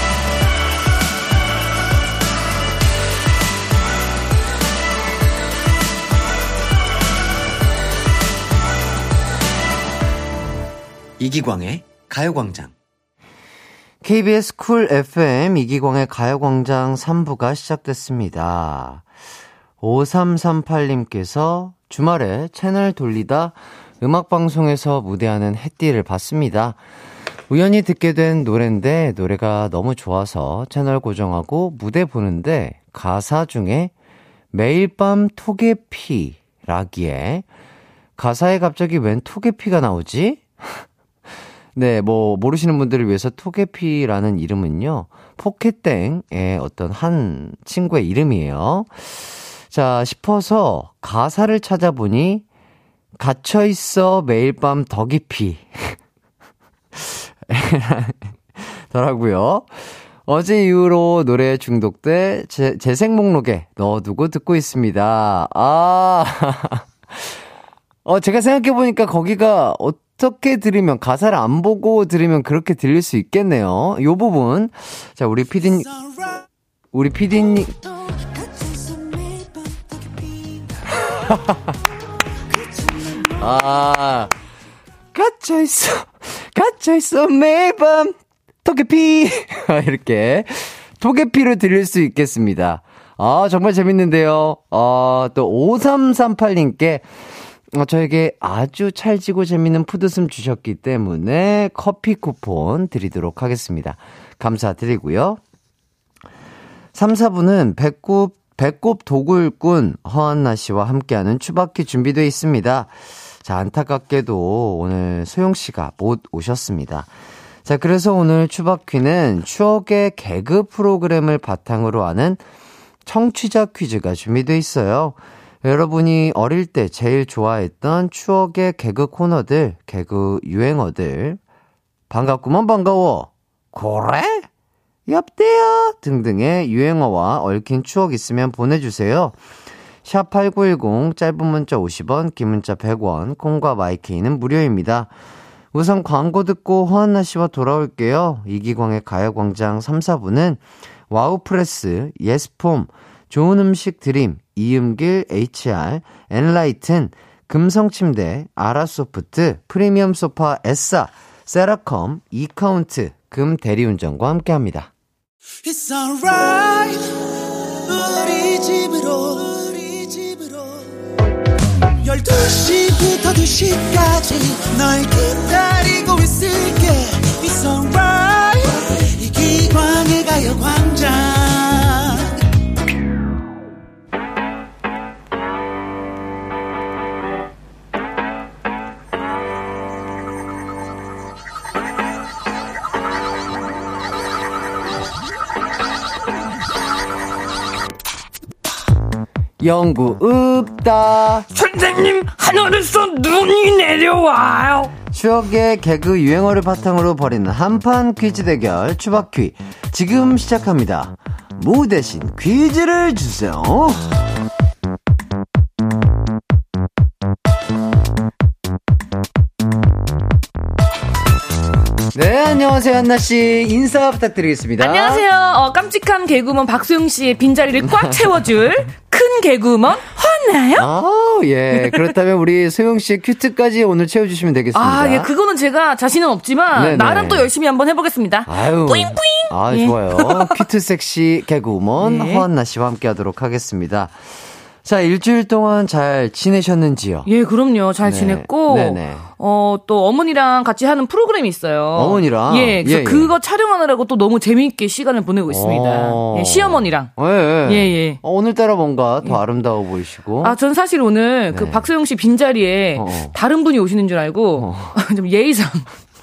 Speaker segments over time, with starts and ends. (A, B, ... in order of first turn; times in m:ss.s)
0:11.2-0:12.7 A
0:14.0-0:19.0 A
0:19.8-0:26.8 A
0:27.5-0:33.9 A
0:34.5-0:37.4 A
0:38.2-0:40.8 A
0:41.8-0:52.4 A
0:53.2-0:56.0 A
0:57.0-1:07.4 A
1:08.0-1:15.9 A
1:15.7-1:16.4 B
1:16.9-1:17.8 A
1:17.6-1:21.4 B
1:21.3-1:21.6 A
1:22.5-1:23.8 B
1:23.4-1:24.3 A
1:25.1-1:37.0 A
1:37.7-1:45.4 A
1:47.0-1:57.1 A
1:57.6-2:02.4 A
2:03.1-2:11.4 A
2:12.1-2:14.5 A
2:15.1-2:19.4 A
2:20.0-2:25.1 A
2:25.7-2:44.9 A
2:45.6-2:47.0 B
2:47.8-2:51.0 B
2:52.0-3:02.3 B
3:19.6-3:21.5 A
3:21.5-3:25.0 C
3:25.1-3:34.0 A
3:42.1-3:45.2 A
3:44.8-3:50.9 C
3:47.8-3:48.2 A
3:50.8-3:55.3 A
3:51.8-3:52.2 C
3:54.7-4:00.7 C
3:56.7-3:57.5 A
3:58.5-4:07.3 A
4:02.0-4:02.5 C
4:07.3-4:18.2 C
4:08.0-4:09.3 A
4:11.9-4:13.4 A
4:15.5-4:20.6 A
4:20.4-4:25.9 C
4:21.5-4:21.9 A
4:23.0-4:23.4 A
4:24.6-4:25.0 A